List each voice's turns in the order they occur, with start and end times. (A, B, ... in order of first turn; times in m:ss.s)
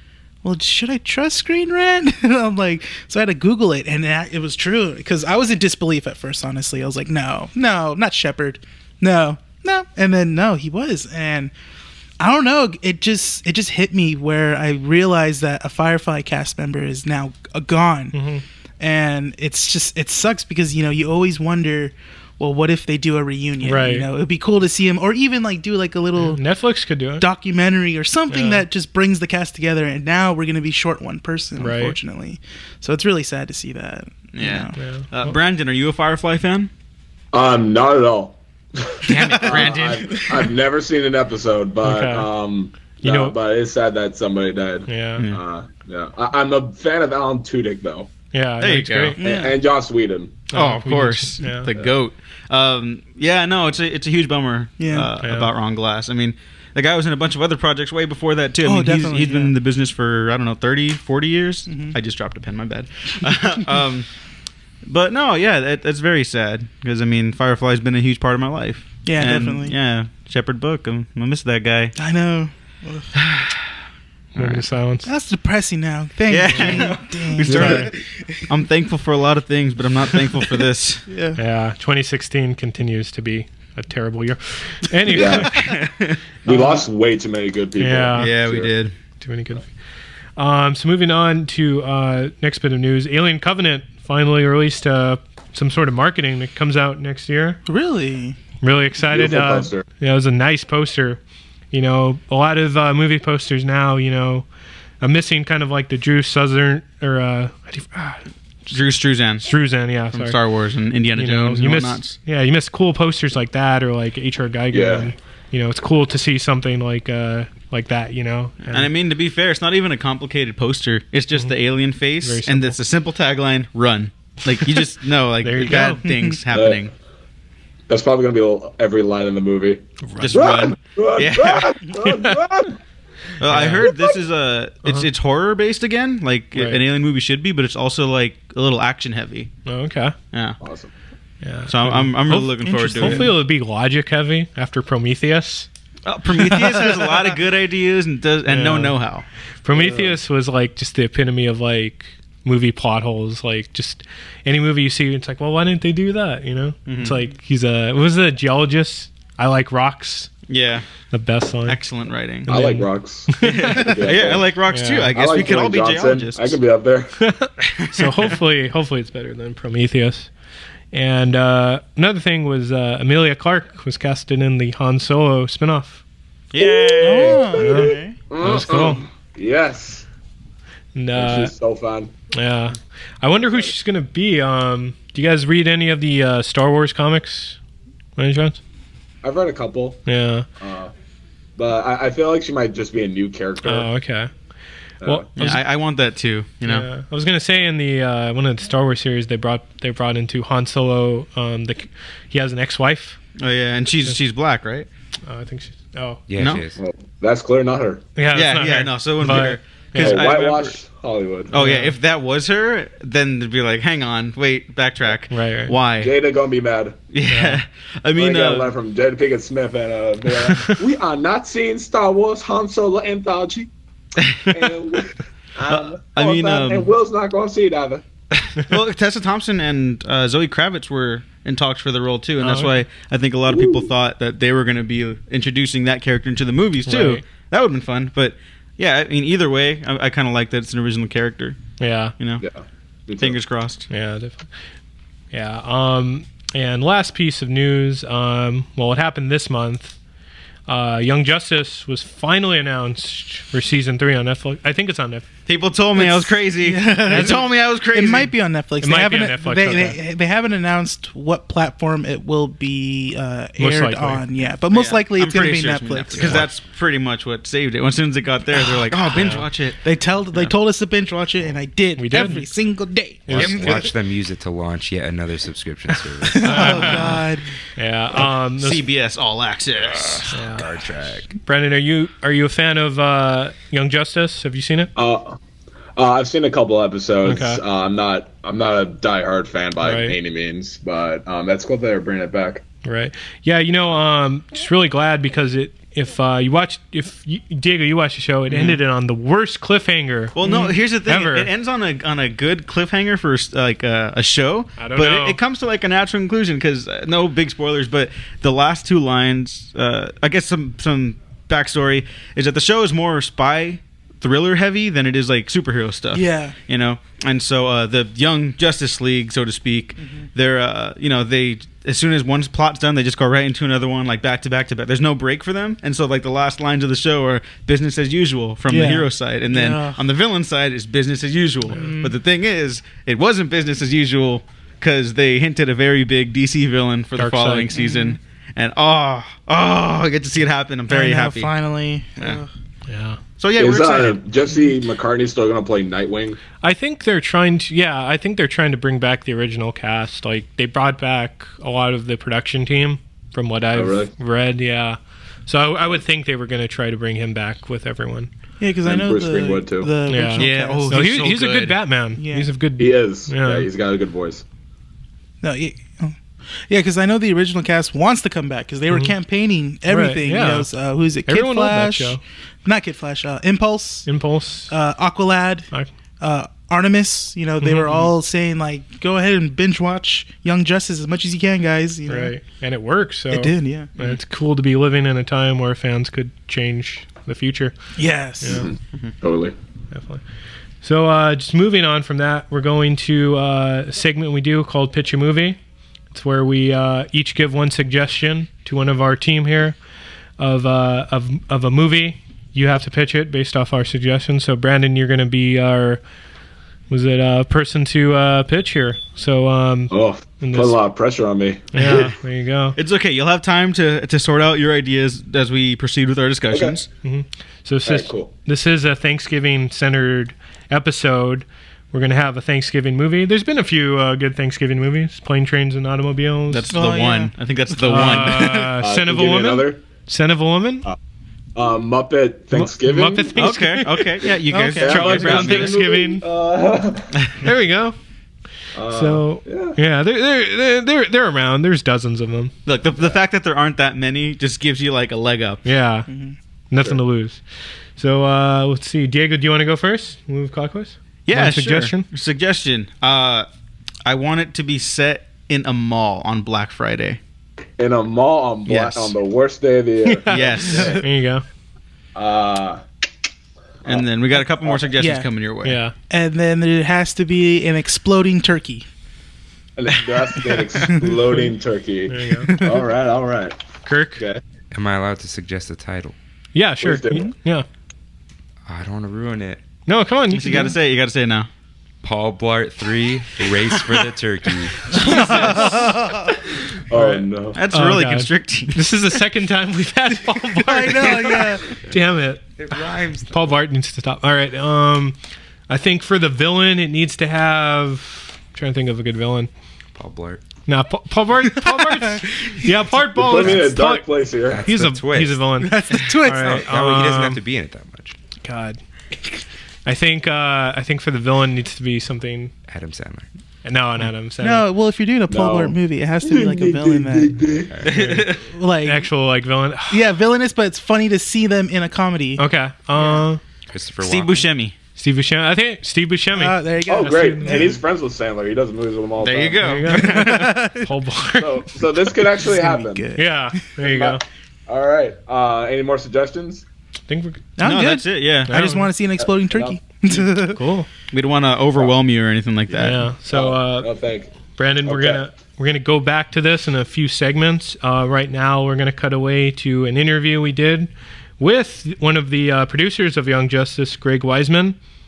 0:00.4-0:11.5 A
0:12.2-0:18.2 A
0:18.1-0:18.4 B
0:18.8-0:26.4 A
0:23.6-0:24.1 B
0:26.2-0:27.2 B
0:27.2-0:34.8 A
0:28.3-0:28.6 B
0:31.6-0:32.0 B
0:34.3-0:36.7 C
0:34.8-0:35.4 B
0:37.3-0:48.1 D
0:39.0-0:40.5 C
0:41.8-0:42.3 B
0:43.0-0:43.4 B
0:44.9-0:45.2 B
0:48.3-0:49.2 B
0:48.6-0:49.2 C
0:49.2-0:49.6 A
0:49.2-0:50.4 D
0:50.5-0:51.7 B
0:50.5-1:04.1 C
0:54.8-0:55.1 A
0:55.2-0:55.5 B
0:58.6-0:59.5 A
1:01.7-1:02.0 A
1:04.8-1:12.0 C
1:09.0-1:09.8 A
1:12.0-1:13.1 A
1:13.2-1:13.6 C
1:14.3-1:15.1 B
1:15.0-1:18.5 A
1:16.3-1:17.9 C
1:16.5-1:16.9 B
1:17.5-1:17.8 D
1:17.6-1:17.9 B
1:18.5-1:21.0 C
1:21.1-1:21.4 A
1:21.4-1:25.7 B
1:25.1-1:25.5 D
1:25.5-1:26.2 C
1:26.4-1:28.7 D
1:26.5-1:26.8 A
1:27.8-1:28.3 B
1:28.2-1:28.9 C
1:29.2-1:29.7 B
1:30.4-1:37.6 B
1:37.6-1:38.4 A
1:38.6-1:41.2 B
1:39.1-1:39.8 D
1:41.7-1:44.5 B
1:45.0-1:48.2 B
1:48.7-1:49.5 C
1:49.4-1:50.4 B
1:50.1-1:52.2 C
1:51.2-1:58.9 B
1:54.7-1:55.1 D
1:58.7-2:06.9 C
2:02.2-2:02.8 B
2:05.4-2:06.1 B
2:06.5-2:06.8 D
2:07.9-2:12.8 D
2:10.0-2:10.4 B
2:10.2-2:11.7 C
2:13.4-2:19.5 C
2:13.5-2:13.8 B
2:13.8-2:14.1 D
2:14.8-2:15.1 B
2:16.5-2:16.8 B
2:19.6-2:20.1 B
2:20.3-2:20.6 C
2:20.6-2:20.9 D
2:21.4-2:25.7 B
2:21.7-2:23.3 C
2:23.0-2:23.3 A
2:26.0-2:29.2 C
2:26.5-2:27.1 A
2:28.5-2:29.0 B
2:29.6-2:40.3 B
2:29.7-2:30.1 D
2:36.9-2:37.2 C
2:40.5-2:40.9 C
2:41.1-2:41.8 B
2:41.6-2:42.5 C
2:42.5-2:43.9 B
2:42.5-2:44.5 D
2:43.4-2:46.6 C
2:44.7-2:45.1 B
2:45.1-2:47.2 D
2:47.2-2:50.3 B
2:47.8-2:48.3 C
2:50.9-2:56.0 B
2:56.5-2:57.8 C
2:56.6-2:58.2 A
2:57.6-2:59.0 B
2:58.3-3:00.0 D
3:00.9-3:01.5 B
3:01.1-3:02.1 D
3:02.3-3:07.6 B
3:08.2-3:08.6 B
3:09.2-3:10.0 D
3:10.0-3:10.4 B
3:10.6-3:10.9 D
3:11.6-3:13.9 D
3:13.6-3:14.3 B
3:15.0-3:15.6 B
3:15.4-3:16.9 C
3:16.6-3:23.2 B
3:23.4-3:24.9 C
3:25.2-3:26.2 B
3:26.3-3:26.8 E
3:26.4-3:26.6 C
3:26.8-3:28.0 D
3:28.2-3:30.4 B
3:28.3-3:30.8 C
3:30.0-3:31.5 D
3:31.5-3:36.1 C
3:31.5-3:31.9 B
3:35.3-3:35.7 B
3:36.0-3:37.0 D
3:37.1-3:38.7 C
3:37.3-3:37.6 B
3:38.2-3:43.7 D
3:40.5-3:40.8 B
3:44.2-3:44.6 C
3:44.5-3:48.0 D
3:45.7-3:46.9 C
3:48.5-4:01.6 C
3:52.4-3:52.8 B
3:53.5-3:53.9 D
3:56.8-3:57.2 B
4:01.8-4:02.1 B
4:02.4-4:03.4 D
4:03.2-4:03.9 C
4:03.9-4:04.5 B
4:05.3-4:10.0 B
4:10.7-4:15.3 B
4:15.5-4:18.3 C
4:15.9-4:26.4 A
4:17.1-4:17.5 B
4:18.8-4:20.0 B
4:23.6-4:24.2 B
4:24.7-4:29.8 C
4:26.1-4:26.5 E
4:29.2-4:29.4 B
4:29.8-4:33.8 A
4:32.0-4:32.5 B
4:33.3-4:33.6 B
4:33.3-4:37.1 E
4:33.4-4:33.9 C
4:36.3-4:37.5 A
4:36.4-4:37.2 B
4:37.8-4:38.8 B
4:38.6-4:40.3 C
4:40.0-4:41.3 E
4:40.3-4:40.7 B
4:41.4-4:44.9 B
4:45.0-4:45.4 D
4:46.0-4:52.6 D
4:47.2-4:47.6 B
4:49.8-4:50.1 B
4:52.8-5:00.3 B
4:58.5-4:58.8 C
5:00.3-5:41.6 C
5:00.4-5:00.8 A
5:01.1-5:01.5 B
5:04.8-5:05.4 B
5:16.1-5:16.5 A
5:20.0-5:20.3 A
5:28.7-5:30.0 A
5:31.7-5:32.2 A
5:37.2-5:37.7 B
5:37.7-5:38.2 A
5:40.9-5:42.5 A
5:42.9-5:43.2 B
5:43.4-5:44.2 C
5:43.6-5:46.4 D
5:46.6-5:58.3 B
5:53.7-5:54.1 D
5:58.6-6:01.3 A
5:58.8-5:59.9 D
6:00.1-6:03.7 B
6:00.4-6:01.8 C
6:02.1-6:02.5 A
6:02.8-6:04.4 D
6:05.4-6:14.1 A
6:09.8-6:10.7 B
6:11.2-6:12.2 B
6:14.0-6:14.7 B
6:14.7-6:15.7 A
6:16.2-6:22.4 A
6:17.6-6:18.1 B
6:22.1-6:27.8 B
6:23.3-6:23.9 A
6:28.0-6:28.7 A
6:28.5-6:29.5 D
6:29.9-6:30.2 B
6:30.8-6:35.6 B
6:36.1-6:39.8 B
6:40.4-6:46.0 B
6:46.9-6:50.8 B
6:49.9-6:52.1 D
6:51.7-6:52.8 B
6:52.8-6:56.9 C
6:56.5-6:56.8 D
6:57.0-7:06.8 B
6:57.8-6:58.3 D
7:06.5-7:08.6 C
7:06.7-7:08.3 A
7:07.8-7:10.8 B
7:08.8-7:09.8 D
7:11.6-7:13.3 D
7:12.5-7:14.2 B
7:13.4-7:15.8 C
7:14.5-7:15.0 A
7:14.7-7:17.1 D
7:14.8-7:16.2 B
7:17.4-7:18.0 B
7:18.7-7:19.8 D
7:18.9-7:22.5 B
7:22.6-7:25.6 C
7:25.6-7:26.1 B
7:26.1-7:26.4 A
7:26.7-7:27.4 B
7:28.0-7:32.0 B
7:31.3-7:33.5 C
7:34.0-7:37.2 C
7:37.8-7:41.0 D
7:38.8-7:39.0 C
7:40.0-7:41.4 B
7:40.3-7:41.0 C
7:42.1-7:42.8 D
7:43.8-7:44.9 D
7:43.8-7:45.8 C
7:45.0-7:45.3 A
7:45.6-7:45.9 B
7:46.1-7:48.8 A
7:49.8-7:53.6 D
7:52.1-7:52.5 B
7:52.5-7:52.8 A
7:53.8-7:54.2 B
7:54.7-7:56.1 E
7:56.5-7:57.6 B
7:56.8-7:57.3 D
7:58.6-7:59.6 E
7:59.9-8:00.7 B
8:00.3-8:01.5 C
8:02.0-8:05.5 E
8:05.0-8:06.3 A
8:05.1-8:05.9 B
8:06.9-8:07.6 D
8:06.9-8:15.2 B
8:07.5-8:08.8 C
8:10.6-8:11.6 A
8:12.6-8:13.6 E
8:15.7-8:19.5 B
8:19.9-8:20.4 E
8:20.7-8:24.0 B
8:21.7-8:22.4 A
8:23.1-8:24.6 D
8:24.5-8:28.2 E
8:24.6-8:27.4 B
8:25.6-8:26.6 A
8:28.4-8:28.8 B
8:29.8-8:32.5 B
8:32.7-8:33.3 E
8:33.6-8:34.6 B
8:34.4-8:37.6 A
8:35.3-8:37.7 D
8:37.7-8:38.2 E
8:37.8-8:38.4 C
8:38.5-8:39.1 A
8:38.8-8:40.0 B
8:39.9-8:42.4 A
8:42.4-8:43.4 B
8:42.9-8:43.3 A
8:43.7-8:44.4 E
8:44.0-8:44.7 C
8:45.0-8:47.6 B
8:46.3-8:47.8 A
8:46.9-8:49.8 D
8:49.2-8:50.6 C
8:49.6-8:51.5 B
8:50.0-8:50.9 A
8:51.4-8:53.0 D
8:52.4-8:53.6 A
8:53.2-8:54.2 B
8:53.8-8:56.6 D
8:57.1-8:57.4 B
8:57.6-9:00.6 A
8:57.6-8:58.6 C
8:58.5-8:58.9 B
8:59.2-8:59.8 D
9:00.5-9:00.9 B
9:01.1-9:03.0 C
9:02.7-9:04.3 D
9:02.8-9:03.9 B
9:04.6-9:14.8 B
9:04.8-9:05.2 D